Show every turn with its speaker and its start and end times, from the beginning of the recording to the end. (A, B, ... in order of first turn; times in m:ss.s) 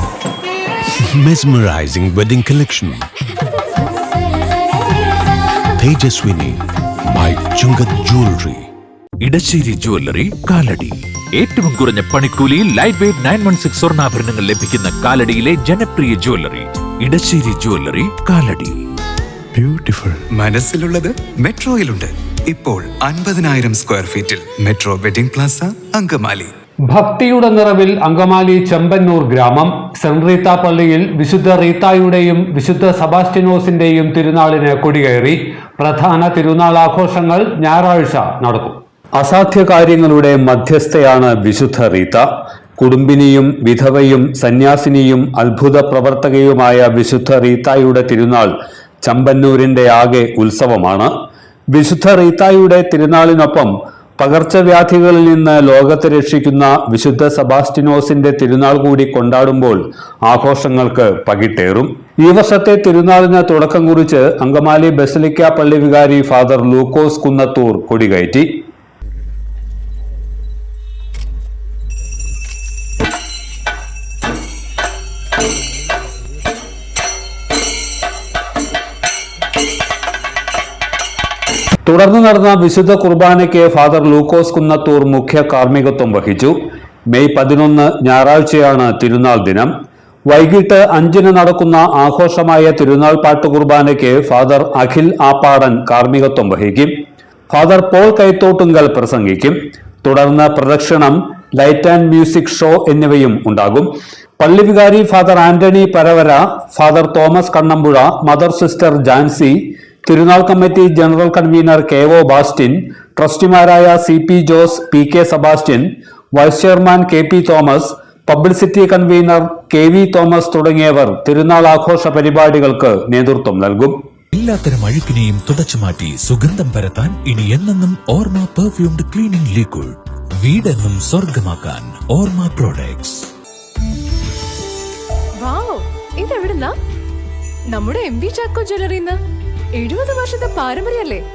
0:00.8-0:03.1 A
0:05.6-0:08.7 A
0:09.2-0:18.8 B
0:19.5-0:20.2 A
0:20.3-0:26.5 C
0:26.9-0:42.2 D
0:42.8-0:48.5 D
0:49.0-0:51.1 D
0:51.7-1:08.5 D
1:21.8-1:26.6 D
1:27.1-1:29.7 D
1:30.3-1:36.9 D
1:37.5-2:03.9 D
2:04.3-2:13.3 B
2:15.4-2:16.7 E
2:17.7-2:19.2 E
2:19.8-2:21.2 E